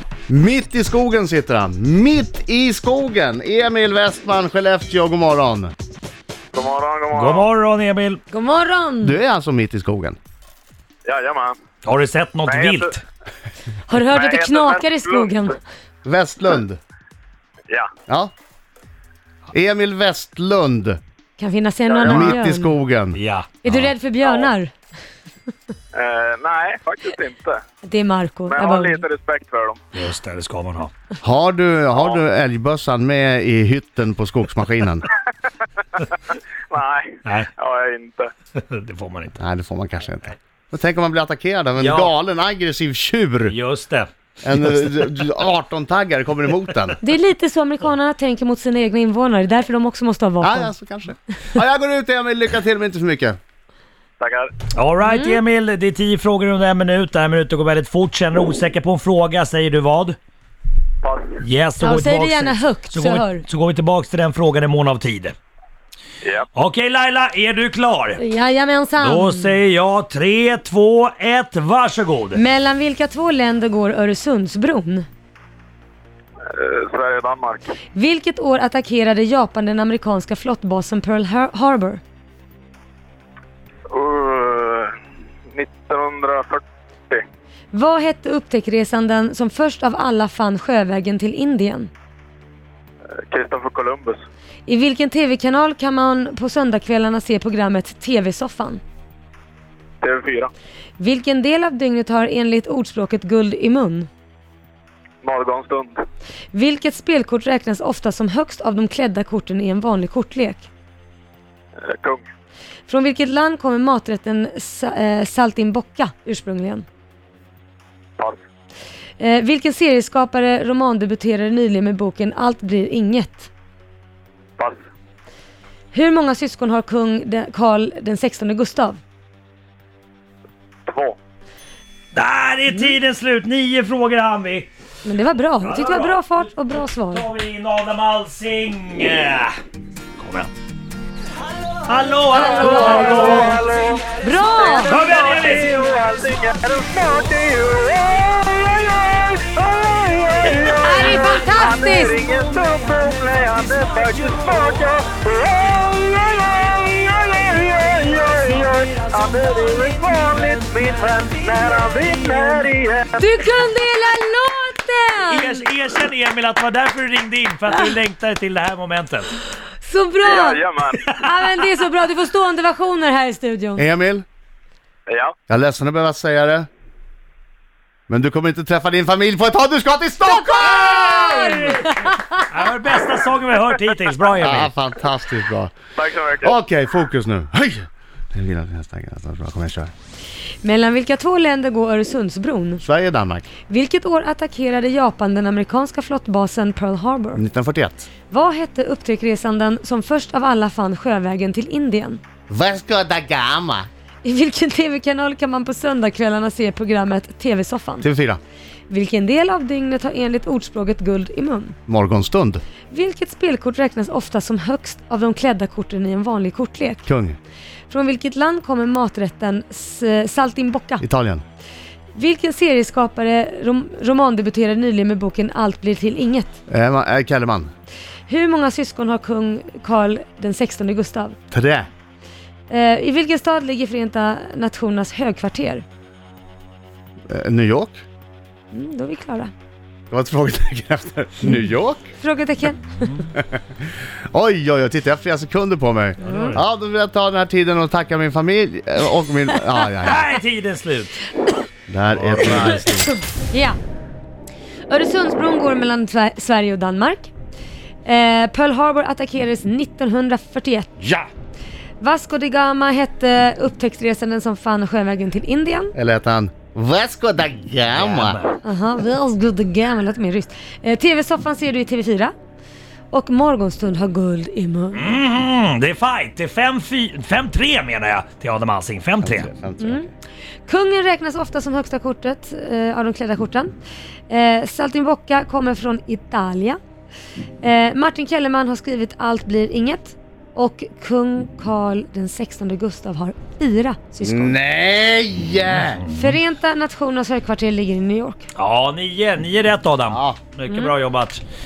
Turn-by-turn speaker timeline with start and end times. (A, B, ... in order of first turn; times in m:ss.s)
0:00.3-0:05.7 A
0:06.5-0:07.5 B
0:07.1-0:08.2 C
0:08.3-0:09.2 D
0:09.0-0:10.2 A
0:11.0-0:11.6 B
0:11.8-0:13.0 C
0:12.5-0:13.0 B
0:13.9-0:15.6 D
0:14.1-0:15.5 B
0:16.0-0:16.8 A
0:19.5-0:21.0 A
0:21.4-0:22.8 D
0:21.9-0:22.4 B
0:22.0-0:23.9 A
0:23.1-0:23.6 C
0:23.6-0:24.7 D
0:24.2-0:24.5 B
0:25.9-0:27.6 B
0:27.8-0:29.0 D
0:28.5-0:29.9 B
0:29.9-0:30.9 C
0:31.2-0:35.1 A
0:31.9-0:32.2 B
0:36.0-0:38.3 B
0:38.5-0:39.4 C
0:39.4-0:43.6 A
0:41.8-0:42.1 C
0:43.5-0:44.9 C
0:44.4-0:47.0 A
0:47.0-0:50.7 D
0:50.4-0:53.4 A
0:54.2-0:54.5 B
0:54.7-1:00.2 C
0:55.0-0:55.4 D
1:01.0-1:01.4 B
1:01.4-1:05.3 C
1:01.8-1:03.4 D
1:06.2-1:06.5 B
1:06.5-1:08.2 C
1:08.2-1:09.6 D
1:09.0-1:12.4 C
1:12.3-1:15.0 D
1:16.5-1:17.7 B
1:17.9-1:22.0 D
1:23.9-1:24.9 B
1:25.5-1:27.2 B
1:27.7-1:31.9 D
1:33.3-1:34.2 B
1:34.6-1:38.8 D
1:40.0-1:40.5 B
1:41.0-1:44.1 D
1:45.2-1:46.0 B
1:46.5-1:50.7 D
1:51.8-1:52.2 B
1:52.9-1:56.8 D
1:59.2-2:03.5 D
2:05.9-2:09.0 D
2:10.9-2:11.2 B
2:12.1-2:14.7 C
2:15.0-2:17.3 D
2:15.6-2:19.5 C
2:20.2-2:20.5 C
2:21.8-2:23.6 C
2:22.3-2:23.6 D
2:22.7-2:43.3 B
2:24.2-2:25.0 D
2:24.8-2:25.9 C
2:30.6-2:31.4 C
2:30.8-2:32.2 D
2:38.4-2:38.7 C
2:43.2-2:45.6 D
2:45.2-2:49.3 C
2:49.8-2:53.8 D
2:50.2-2:51.2 B
2:53.8-2:54.2 A
2:55.1-2:55.3 B
2:55.5-2:56.7 A
2:58.1-3:01.8 A
3:00.2-3:02.4 D
3:01.8-3:04.7 C
3:04.4-3:05.7 A
3:06.0-3:06.5 B
3:06.4-3:09.9 A
3:10.6-3:12.8 D
3:12.8-3:13.5 A
3:13.7-3:17.4 D
3:17.4-3:18.1 A
3:18.3-3:22.2 D
3:22.5-3:23.9 A
3:24.2-3:28.1 D
3:28.0-3:28.4 A
3:28.9-3:31.8 D
3:31.9-3:32.6 A
3:32.9-3:37.0 D
3:37.0-3:37.4 A
3:37.9-3:41.0 D
3:41.0-3:41.4 A
3:42.1-3:46.6 D
3:46.7-3:47.7 A
3:48.3-3:51.4 D
3:51.5-3:51.9 A
3:52.7-3:55.8 D
3:57.3-3:58.0 A
3:58.7-3:59.5 D
4:00.1-4:02.0 A
4:01.4-4:03.1 D
4:04.3-4:10.2 A
4:06.2-4:06.6 D
4:06.2-4:06.6 C
4:10.0-4:11.2 C
4:11.9-4:13.1 A
4:12.1-4:12.8 C
4:13.3-4:13.8 D
4:14.9-4:17.3 D
4:18.0-4:21.0 D
4:22.0-4:25.9 D
4:26.0-4:28.4 A
4:27.9-4:28.6 C
4:28.6-4:32.3 D
4:33.1-4:35.1 D
4:34.9-4:39.5 C
4:39.2-4:40.1 A
4:39.8-4:40.1 D
4:40.7-4:43.7 D
4:44.3-4:46.8 D
4:47.6-4:54.6 D
4:54.2-4:56.0 A
4:55.7-4:56.4 C
4:56.1-4:58.5 D
4:58.5-5:01.4 C
5:00.1-5:00.4 A